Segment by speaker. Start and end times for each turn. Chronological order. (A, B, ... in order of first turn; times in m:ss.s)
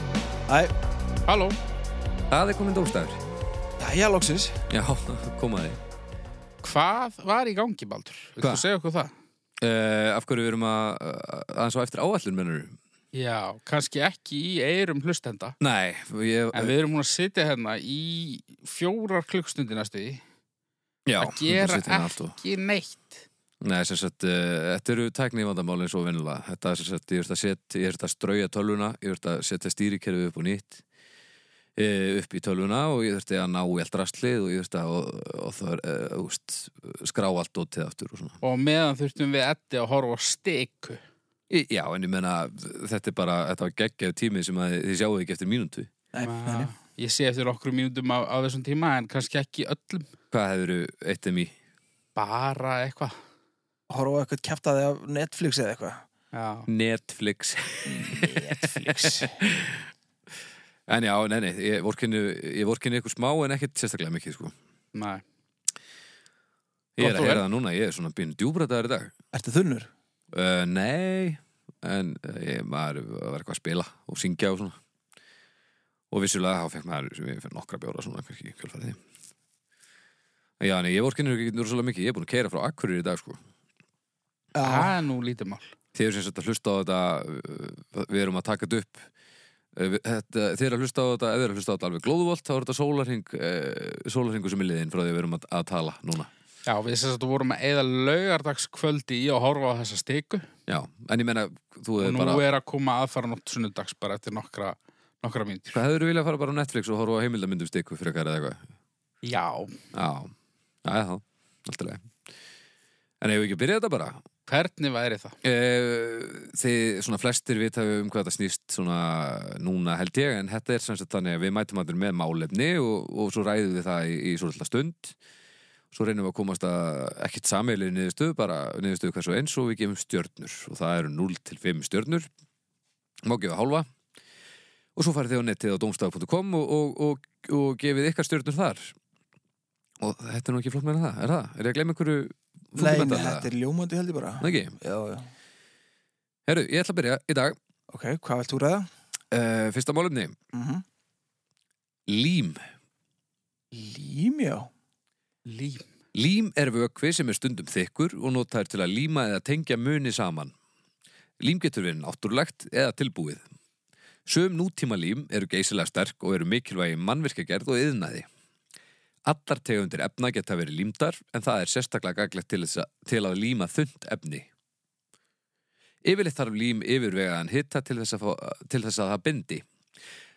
0:00.5-0:00.7 A
0:01.3-0:01.6 B
0:02.3-0:03.2 C
0:03.8-0:04.6 A
0:04.7-0:05.8 C
0:06.6-0:09.1 B
0:09.6-0:12.7 C
0:13.1-0:15.6 B
0:15.6-0:16.7 C
0:16.5-0:20.2 B
0:21.0-0:22.4 C
0:21.2-0:23.2 B
0:23.6-0:30.8 C
0:31.8-0:38.4 C
0:38.4-0:41.0 B
0:41.5-0:45.9 C
0:46.1-0:46.7 A
0:46.2-0:50.1 B
0:50.3-0:51.5 C
0:52.1-0:53.2 B
0:53.9-0:56.0 A
0:56.3-0:56.7 B
0:56.7-0:59.9 C
0:57.9-0:59.4 A
1:00.9-1:04.5 C
1:04.9-1:05.2 B
1:07.0-1:09.1 C
1:07.0-1:07.4 B
1:09.3-1:09.9 A
1:10.3-1:14.8 C
1:16.1-1:19.0 C
1:20.6-1:23.4 C
1:24.6-1:24.9 A
1:24.6-1:25.7 B
1:25.9-1:29.1 C
1:29.7-1:36.3 C
1:36.6-1:40.5 B
1:40.7-1:42.4 C
1:42.0-1:45.8 B
1:45.7-1:48.6 C
1:49.2-1:49.8 B
1:49.9-1:50.3 C
1:50.8-1:52.1 C
1:53.2-1:54.2 C
1:54.5-1:55.4 B
1:55.4-2:05.1 C
2:05.9-2:12.3 C
2:13.2-2:13.9 C
2:15.0-2:18.9 C
2:20.0-2:23.5 C
2:22.8-2:25.3 A
2:24.4-2:24.8 C
2:26.5-2:27.6 C
2:27.9-2:28.9 A
2:29.3-2:30.3 C
2:30.5-2:30.8 A
2:32.1-2:32.6 C
2:33.7-2:34.7 A
2:35.4-2:35.9 B
2:36.1-2:40.5 C
2:41.4-2:43.4 C
2:44.2-2:48.3 C
2:49.2-2:54.5 C
2:56.0-2:59.6 C